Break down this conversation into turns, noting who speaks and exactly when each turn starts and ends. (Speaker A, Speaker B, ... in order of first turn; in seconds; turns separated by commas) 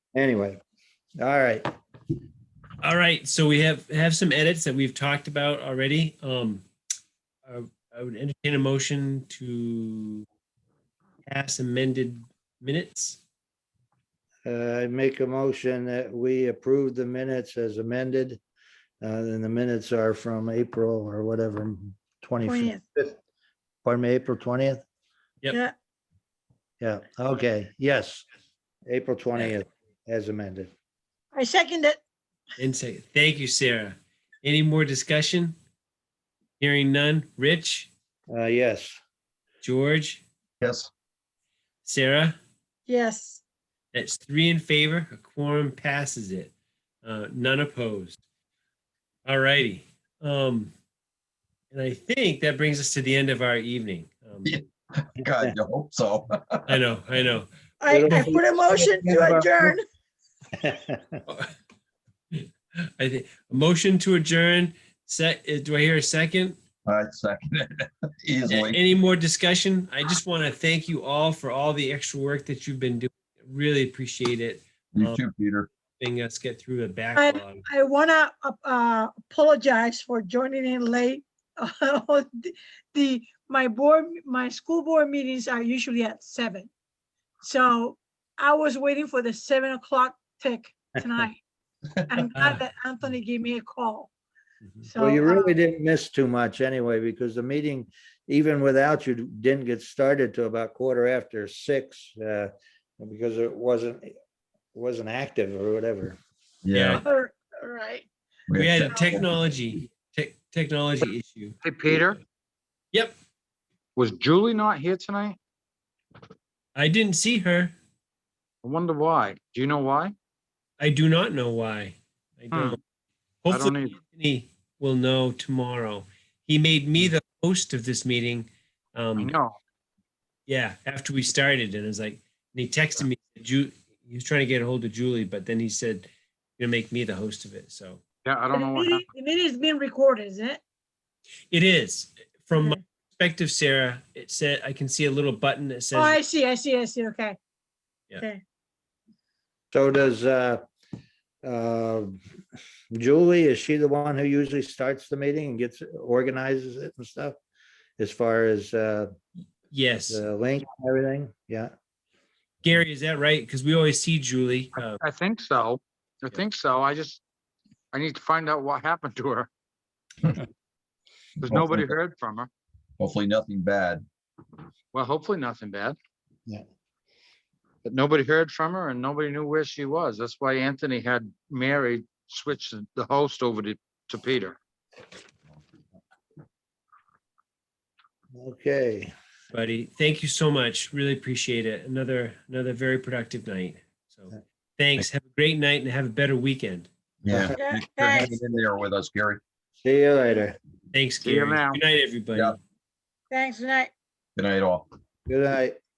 Speaker A: 0.1-0.6, Speaker A: 1.2-1.6, Speaker B: 2.8-6.6, Speaker B: 7.5-10.2, Speaker B: 11.3-13.2, Speaker A: 14.4-18.4, Speaker A: 19.0-23.2, Speaker C: 22.4-22.8, Speaker A: 23.8-24.8, Speaker A: 26.8-28.2, Speaker A: 28.9-30.7, Speaker C: 31.3-32.0, Speaker B: 32.6-35.5, Speaker B: 36.6-37.9, Speaker A: 38.3-39.0, Speaker B: 39.6-40.2, Speaker D: 40.6-40.9, Speaker B: 41.8-42.3, Speaker C: 42.9-43.4, Speaker B: 43.9-46.5, Speaker B: 47.0-48.2, Speaker B: 49.2-50.7, Speaker B: 51.7-54.5, Speaker D: 54.4-56.7, Speaker B: 56.7-57.5, Speaker C: 57.8-59.8, Speaker A: 57.9-59.7, Speaker B: 58.0-58.4, Speaker A: 60.6-61.2, Speaker B: 63.0-66.6, Speaker D: 66.8-68.8, Speaker B: 68.5-75.2, Speaker D: 74.9-75.7, Speaker B: 76.0-77.6, Speaker C: 77.1-86.7, Speaker C: 87.4-91.4, Speaker C: 92.1-94.1, Speaker B: 92.3-92.6, Speaker C: 94.8-95.6, Speaker A: 95.0-104.1, Speaker A: 104.7-106.2, Speaker D: 106.6-107.0, Speaker B: 106.7-107.0, Speaker C: 107.0-108.1, Speaker D: 108.5-108.9, Speaker B: 108.5-111.6, Speaker E: 111.6-112.2, Speaker E: 114.0-115.4, Speaker B: 116.7-117.7, Speaker E: 118.6-120.1, Speaker B: 120.8-122.8, Speaker E: 122.5-122.8, Speaker B: 123.4-129.3, Speaker E: 123.5-124.0, Speaker E: 129.2-129.6, Speaker B: 130.5-138.0, Speaker E: 138.2-139.0, Speaker C: 138.5-140.6, Speaker B: 141.5-146.2, Speaker C: 145.9-147.4, Speaker A: 149.7-150.6, Speaker A: 151.4-152.2, Speaker A: 152.9-157.3, Speaker A: 158.0-159.1, Speaker B: 159.7-160.2, Speaker A: 160.1-161.7, Speaker B: 162.6-165.0, Speaker E: 165.0-167.2, Speaker E: 167.9-169.5, Speaker E: 171.4-172.5, Speaker D: 171.5-171.9, Speaker D: 173.0-174.0, Speaker E: 174.9-175.9, Speaker E: 177.8-184.6, Speaker A: 188.3-189.1, Speaker B: 189.5-196.9, Speaker D: 197.2-199.4, Speaker A: 197.3-198.6, Speaker C: 197.5-198.4, Speaker A: 199.8-200.5, Speaker B: 200.9-202.6, Speaker E: 201.2-201.8, Speaker C: 203.3-203.9, Speaker D: 204.3-204.9, Speaker A: 205.3-205.8